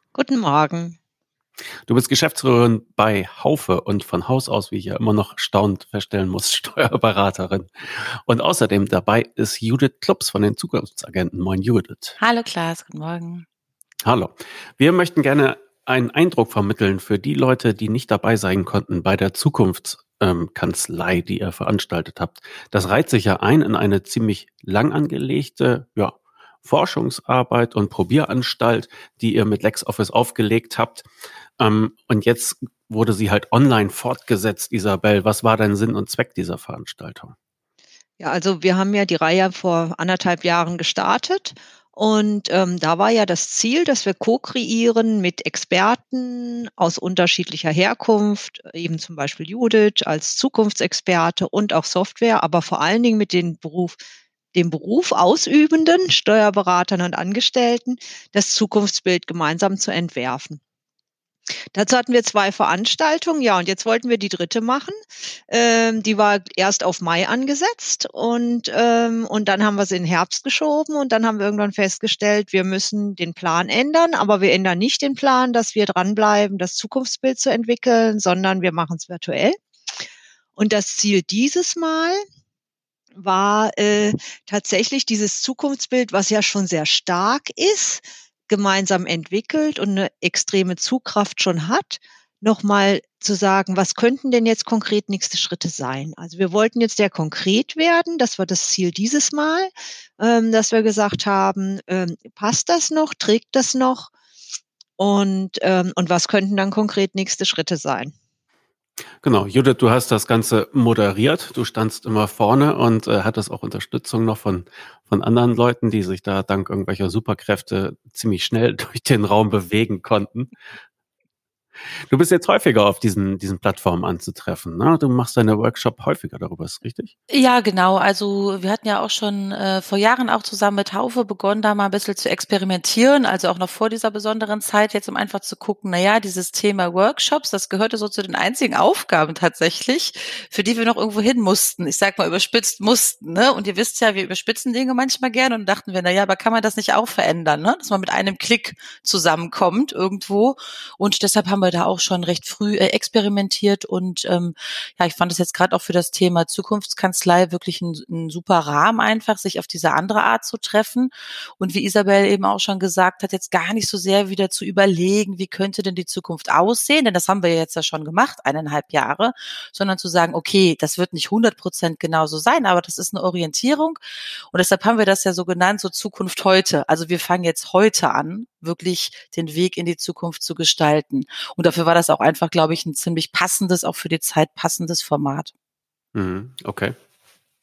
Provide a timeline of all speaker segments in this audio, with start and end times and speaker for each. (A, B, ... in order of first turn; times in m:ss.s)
0:00.1-0:01.0 A
0:01.9-0:12.2 B
0:12.2-0:13.4 C
0:14.0-0:31.1 B
0:31.6-0:37.3 B
0:38.2-0:54.0 A
0:54.5-1:00.6 A
1:01.7-1:05.0 A
1:05.5-1:19.6 A
1:20.6-1:22.2 A
1:23.1-1:44.1 A
1:45.0-1:48.1 A
1:49.2-2:00.5 B
2:02.1-2:07.1 B
2:07.3-2:54.0 C
2:54.5-3:05.5 C
3:06.1-3:07.0 B